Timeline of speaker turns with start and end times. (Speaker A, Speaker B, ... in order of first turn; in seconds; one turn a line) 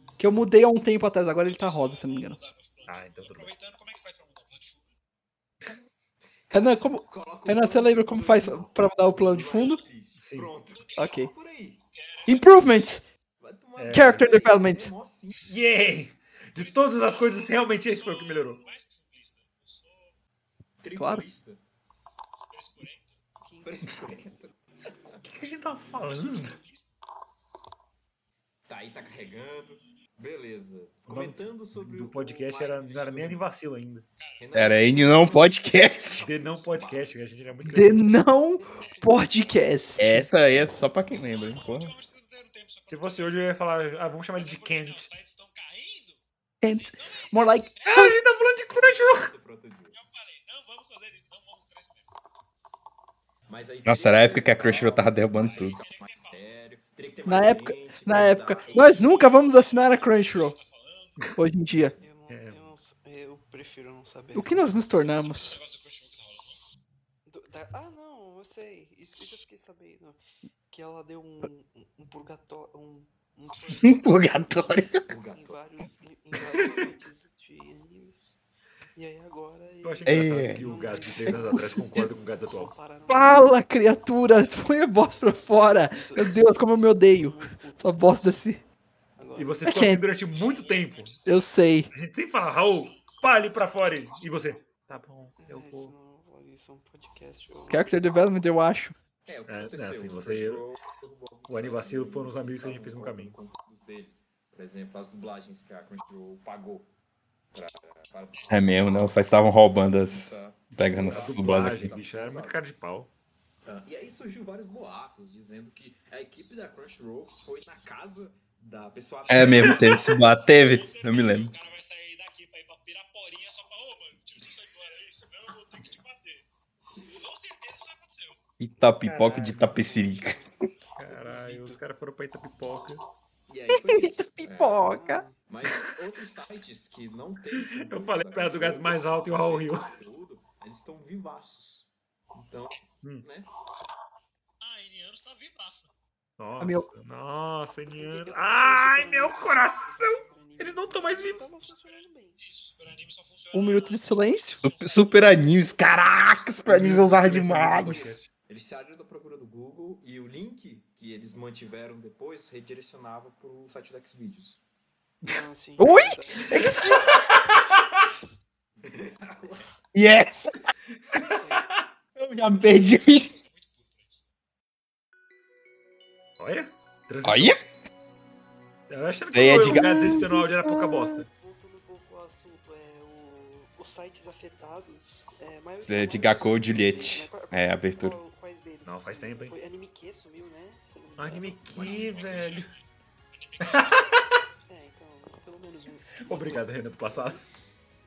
Speaker A: 0.2-2.4
Speaker B: 1.4-5.0
Speaker C: 2.9-3.5
Speaker D: 6.5-11.8
Speaker A: 6.5-9.8
Speaker C: 10.2-10.5
Speaker B: 10.7-11.2
Speaker A: 11.0-11.3
Speaker B: 11.9-12.9
Speaker A: 12.3-13.0
Speaker D: 13.4-15.5
Speaker C: 13.8-14.4
Speaker A: 13.9-14.9
Speaker C: 15.5-18.6
Speaker B: 16.6-20.2
Speaker D: 20.8-21.6
Speaker A: 21.0-21.2
Speaker B: 22.5-23.2
Speaker E: 23.4-24.4
Speaker D: 23.6-25.2
Speaker C: 25.2-26.6
Speaker B: 26.0-26.9
Speaker D: 28.7-33.5
Speaker C: 31.1-34.0
Speaker B: 34.2-34.5
Speaker D: 34.4-37.1
Speaker F: 34.5-36.3
Speaker C: 36.2-38.1
Speaker A: 37.7-40.3
Speaker E: 38.6-40.1
Speaker F: 40.0-41.9
Speaker B: 41.2-43.7
Speaker C: 42.9-45.1
Speaker B: 44.4-48.2
Speaker A: 46.6-47.7
Speaker C: 47.8-49.3
Speaker D: 48.7-50.0
Speaker B: 49.9-52.1
Speaker D: 53.5-59.1
Speaker F: 53.9-55.8
Speaker B: 55.3-56.5
Speaker A: 57.3-60.6
Speaker B: 58.6-61.3
Speaker A: 61.4-62.0
Speaker D: 61.7-62.0
Speaker E: 62.0-64.6
Speaker C: 62.3-62.6
Speaker A: 64.3-65.6
Speaker B: 64.7-66.6
Speaker E: 67.3-70.2
Speaker E: 70.7-74.5
Speaker F: 73.8-75.0
Speaker D: 75.0-75.6
Speaker E: 75.3-78.4
Speaker C: 76.3-76.9
Speaker E: 79.0-83.5
Speaker C: 79.8-82.7
Speaker F: 80.1-80.6
Speaker A: 81.2-81.6
Speaker A: 83.1-88.6
Speaker E: 85.9-88.4
Speaker E: 89.2-89.8
Speaker C: 89.4-91.2
Speaker A: 89.7-90.0
Speaker B: 90.2-91.5
Speaker A: 91.3-91.9
Speaker C: 91.9-95.9
Speaker B: 92.4-94.6
Speaker E: 95.4-98.0
Speaker A: 97.7-98.9
Speaker D: 99.3-106.9
Speaker C: 99.5-100.6
Speaker C: 101.5-103.4
Speaker D: 107.5-109.2
Speaker B: 108.3-108.6
Speaker F: 108.5-111.9
Speaker D: 110.1-112.6
Speaker C: 111.0-113.1
Speaker D: 113.7-119.9
Speaker B: 119.3-126.5
Speaker F: 119.3-121.5
Speaker C: 119.4-120.1
Speaker B: 127.1-128.4
Speaker F: 128.6-130.4
Speaker C: 129.1-129.8
Speaker E: 129.7-130.5
Speaker C: 131.0-133.0
Speaker E: 131.1-131.8
Speaker D: 133.5-134.9
Speaker A: 133.7-135.2
Speaker E: 134.9-135.4
Speaker D: 135.5-143.5
Speaker C: 137.6-139.9
Speaker B: 144.6-145.9
Speaker C: 146.4-151.5
Speaker A: 146.6-146.9
Speaker E: 147.9-152.4
Speaker B: 151.6-156.5
Speaker A: 153.5-154.6
Speaker F: 154.6-158.1
Speaker C: 156.7-158.3
Speaker D: 157.8-164.6
Speaker E: 165.3-167.1
Speaker A: 165.8-167.2
Speaker C: 167.1-167.6
Speaker B: 168.0-168.4
Speaker D: 168.8-169.7
Speaker F: 169.9-170.5
Speaker C: 171.1-171.9
Speaker E: 171.2-171.7
Speaker F: 172.2-173.3
Speaker B: 172.5-174.2
Speaker C: 176.4-177.6
Speaker F: 177.2-177.6
Speaker C: 178.9-181.3
Speaker F: 179.3-179.9
Speaker A: 179.7-181.2
Speaker E: 181.3-192.3
Speaker F: 185.8-188.2
Speaker C: 188.9-189.6
Speaker C: 191.2-192.7
Speaker B: 191.8-194.2
Speaker D: 191.9-192.4
Speaker C: 193.6-194.4
Speaker E: 194.7-197.5
Speaker C: 196.2-197.4